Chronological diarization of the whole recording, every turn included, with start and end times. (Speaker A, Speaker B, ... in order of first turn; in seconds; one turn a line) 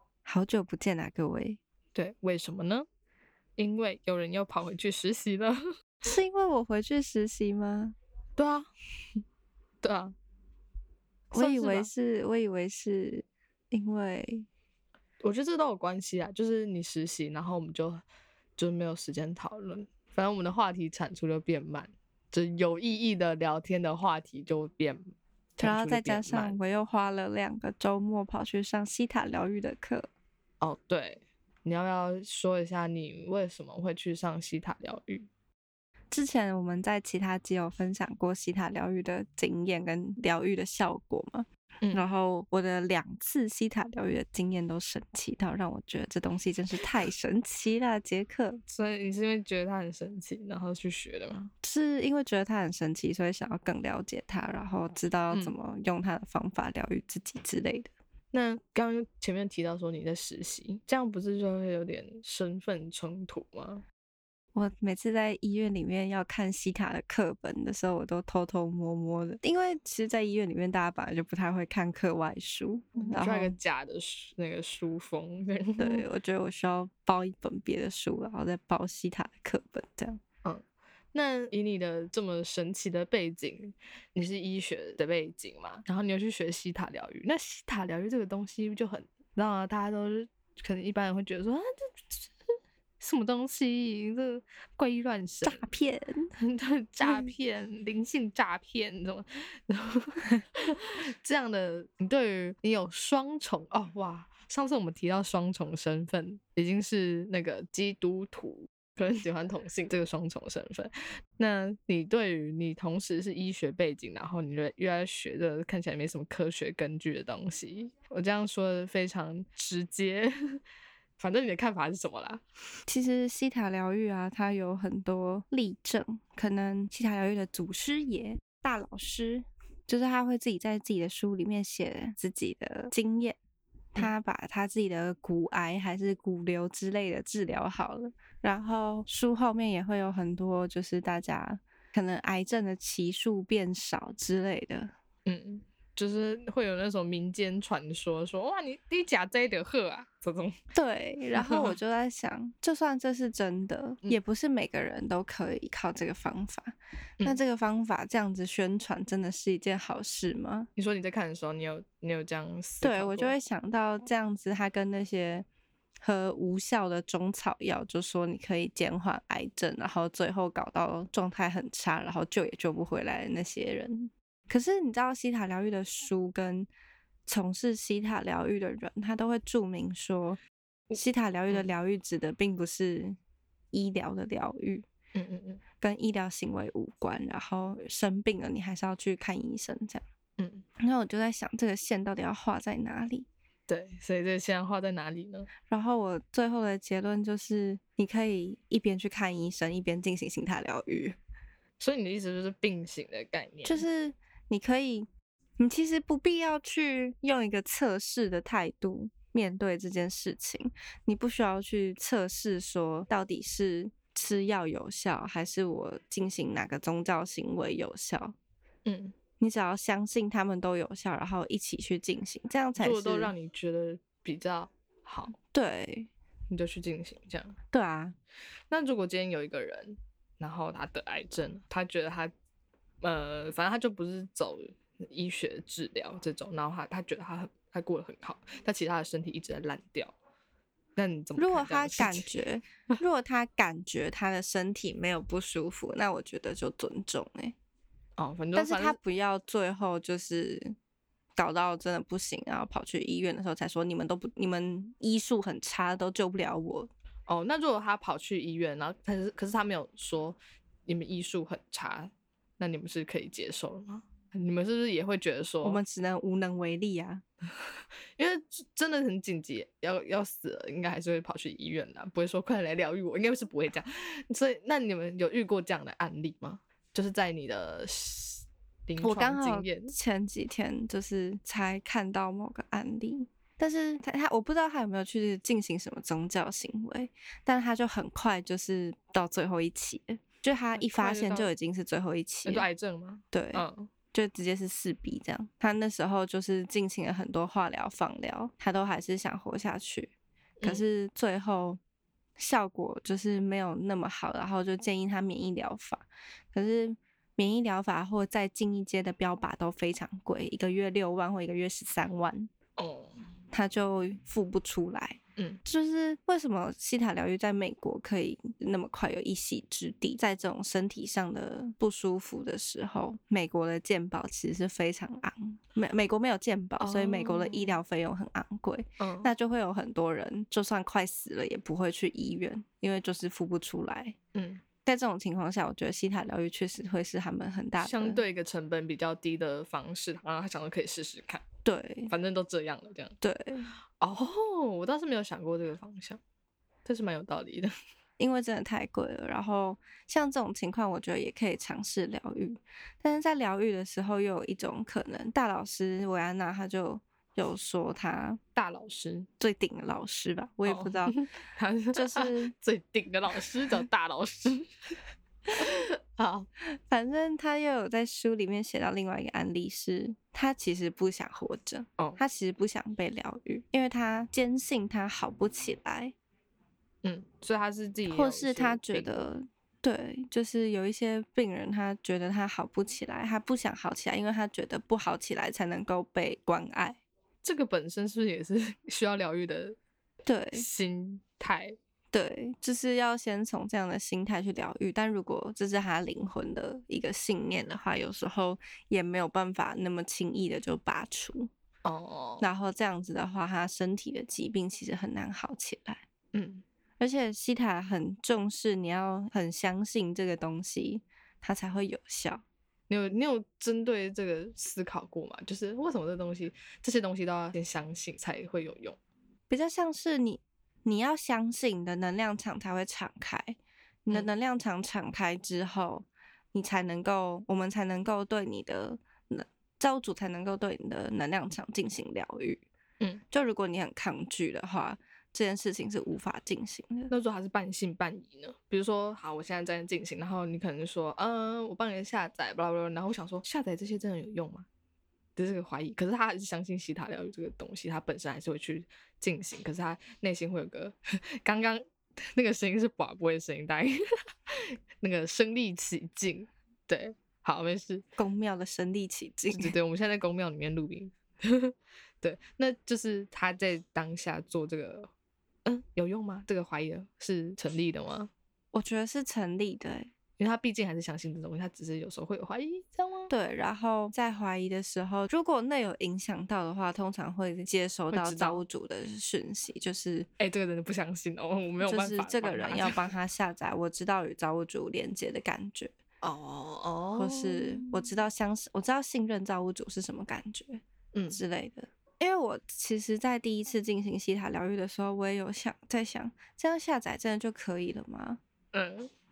Speaker A: 0.2-1.6
Speaker B: 1.9-2.9
Speaker B: 3.6-5.6
Speaker A: 6.0-8.0
Speaker B: 8.4-8.7
Speaker B: 9.8-10.1
Speaker B: 11.3-11.9
Speaker A: 11.3-14.5
Speaker B: 15.2-18.0
Speaker B: 18.6-26.6
Speaker A: 25.6-30.1
Speaker B: 30.6-35.3
Speaker A: 36.1-48.6
Speaker B: 41.8-42.1
Speaker B: 48.7-51.5
Speaker A: 51.6-57.9
Speaker B: 58.3-63.8
Speaker A: 64.5-73.5
Speaker B: 73.0-76.0
Speaker A: 75.8-80.2
Speaker B: 80.4-92.3
Speaker B: 93.0-95.6
Speaker A: 95.4-96.3
Speaker B: 96.4-120.6
Speaker A: 97.0-97.3
Speaker B: 121.2-122.4
Speaker A: 122.9-133.4
Speaker A: 133.9-144.9
Speaker B: 145.2-150.5
Speaker A: 150.7-160.7
Speaker B: 151.3-151.7
Speaker B: 160.8-163.3
Speaker A: 162.8-165.4
Speaker A: 166.0-176.7
Speaker A: 177.3-180.4
Speaker B: 180.9-181.7
Speaker A: 180.9-183.2
Speaker A: 183.7-184.8
Speaker B: 185.1-185.6
Speaker A: 185.8-190.0
Speaker B: 190.4-190.6
Speaker A: 190.8-193.3
Speaker B: 193.7-195.5
Speaker A: 195.7-201.2
Speaker B: 201.8-203.8
Speaker A: 203.6-205.1
Speaker A: 205.6-218.3
Speaker B: 218.8-219.1
Speaker A: 219.4-223.3
Speaker B: 222.8-225.3
Speaker A: 225.5-226.1
Speaker B: 226.5-227.6
Speaker A: 227.7-228.1
Speaker B: 228.7-232.3
Speaker B: 233.0-240.1
Speaker B: 241.0-242.4
Speaker A: 241.4-247.5
Speaker B: 248.2-249.0
Speaker A: 248.5-250.7
Speaker A: 251.4-256.9
Speaker B: 257.3-265.8
Speaker A: 265.6-267.2
Speaker B: 268.2-279.9
Speaker A: 279.0-292.7
Speaker B: 290.7-291.5
Speaker B: 292.4-293.9
Speaker A: 293.3-300.1
Speaker A: 300.6-301.8
Speaker A: 302.4-312.5
Speaker B: 312.8-313.2
Speaker A: 313.5-334.1
Speaker B: 326.8-327.8
Speaker B: 329.0-329.3
Speaker B: 334.3-334.6
Speaker A: 334.8-338.2
Speaker B: 337.8-341.4
Speaker A: 341.6-342.1
Speaker B: 342.1-343.2
Speaker A: 343.2-343.7
Speaker B: 344.0-346.2
Speaker B: 346.8-347.7
Speaker A: 348.2-358.4
Speaker B: 358.6-359.3
Speaker A: 359.4-361.2
Speaker B: 360.6-364.8
Speaker A: 361.9-362.5
Speaker B: 365.6-366.5
Speaker A: 366.7-376.1
Speaker B: 377.0-379.2
Speaker A: 378.1-387.0
Speaker B: 387.4-389.8
Speaker A: 390.2-390.6
Speaker B: 390.5-391.8
Speaker A: 392.1-401.5
Speaker B: 401.8-402.4
Speaker A: 402.4-406.0
Speaker B: 406.3-406.6
Speaker A: 407.0-412.4
Speaker B: 412.9-419.0
Speaker A: 419.5-432.6
Speaker A: 433.3-437.1
Speaker B: 437.1-444.6
Speaker B: 445.4-458.0
Speaker A: 458.2-459.7
Speaker B: 459.5-465.1
Speaker B: 465.6-468.3
Speaker A: 468.7-470.1
Speaker B: 470.4-473.3
Speaker A: 473.3-480.3
Speaker B: 478.1-478.6
Speaker B: 480.4-483.1
Speaker A: 481.8-485.9
Speaker B: 486.2-488.1
Speaker A: 487.1-498.4
Speaker B: 491.1-491.4
Speaker B: 498.7-499.1